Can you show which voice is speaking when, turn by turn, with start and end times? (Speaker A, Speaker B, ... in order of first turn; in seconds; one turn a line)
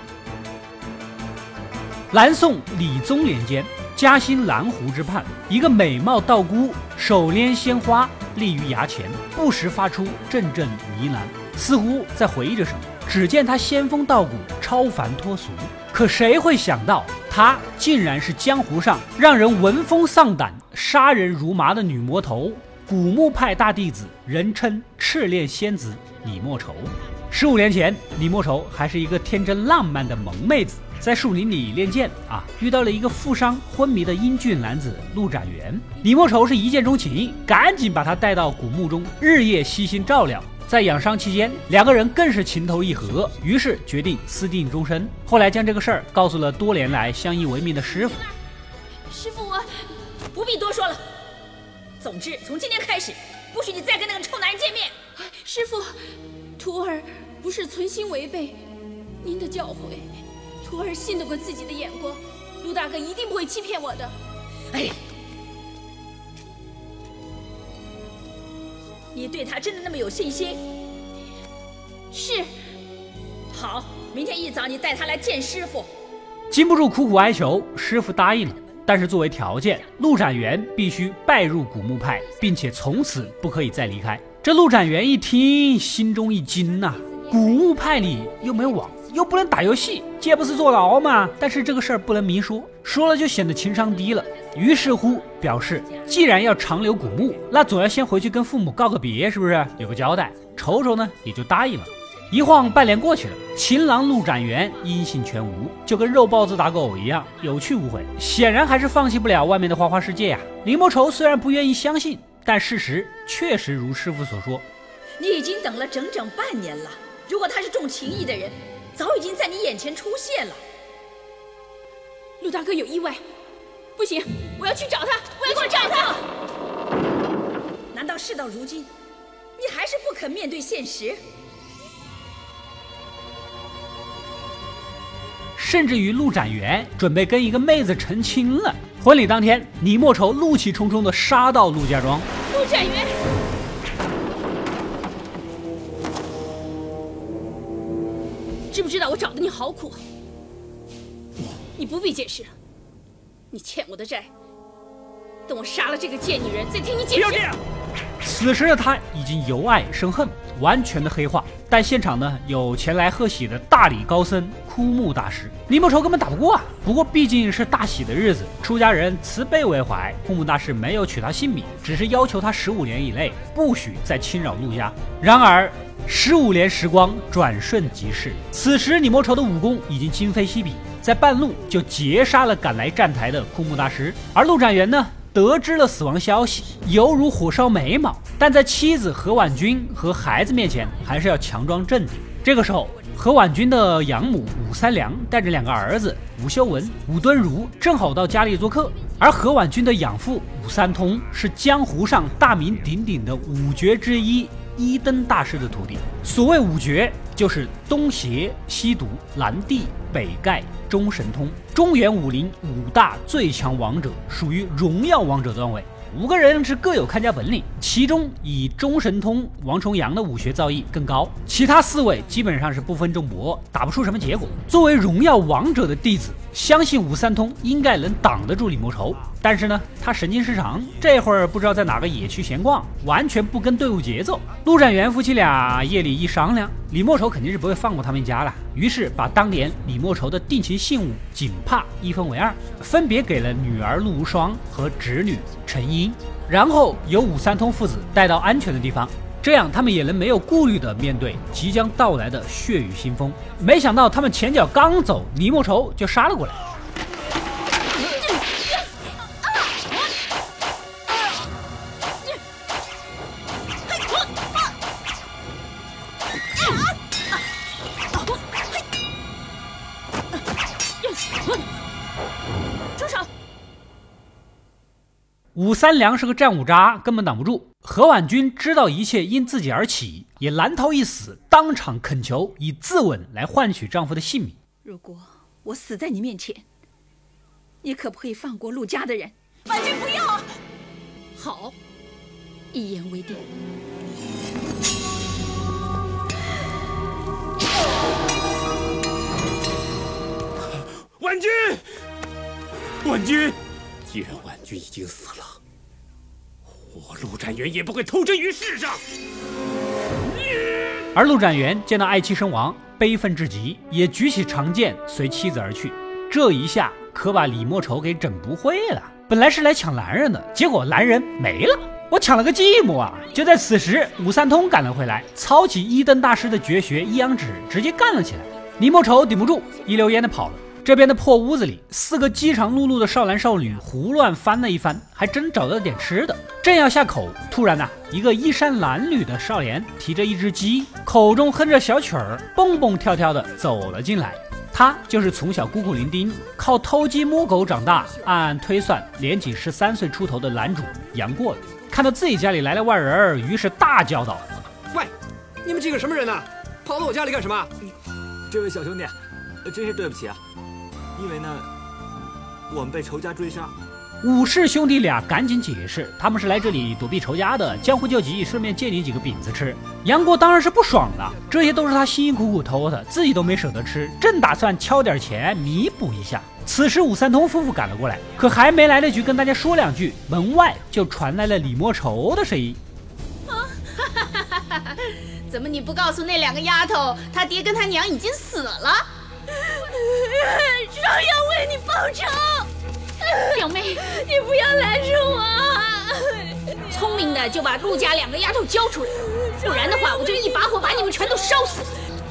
Speaker A: 2.1-48.2
Speaker B: 49.2-49.6
Speaker C: 50.3-51.0
Speaker C: 52.0-54.9
Speaker B: 55.2-55.9
Speaker B: 56.6-58.6
Speaker B: 59.2-60.1
Speaker B: 60.6-64.1
Speaker C: 69.1-70.6
Speaker B: 72.1-72.5
Speaker C: 73.5-75.9
Speaker A: 76.5-114.7
Speaker C: 115.2-120.6
Speaker B: 122.4-123.2
Speaker B: 124.0-126.2
Speaker C: 125.4-126.2
Speaker C: 127.9-128.9
Speaker C: 129.6-131.2
Speaker A: 135.6-142.3
Speaker B: 142.5-143.1
Speaker B: 148.7-150.0
Speaker B: 151.7-152.5
Speaker B: 153.5-154.3
Speaker B: 155.5-157.5
Speaker A: 158.2-256.6
Speaker B: 271.1-271.6
Speaker B: 273.0-273.2
Speaker A: 275.5-284.6
Speaker C: 284.9-286.6
Speaker C: 287.8-289.3
Speaker B: 291.4-291.7
Speaker C: 292.7-293.4
Speaker D: 301.2-301.7
Speaker D: 304.3-305.2
Speaker D: 306.9-308.9
Speaker A: 311.1-354.4
Speaker E: 355.6-357.7
Speaker F: 358.5-360.4
Speaker F: 361.1-361.7
Speaker F: 362.7-363.7
Speaker A: 364.2-382.8
Speaker B: 383.6-389.1
Speaker B: 390.1-392.7
Speaker B: 393.3-396.3
Speaker B: 396.9-401.9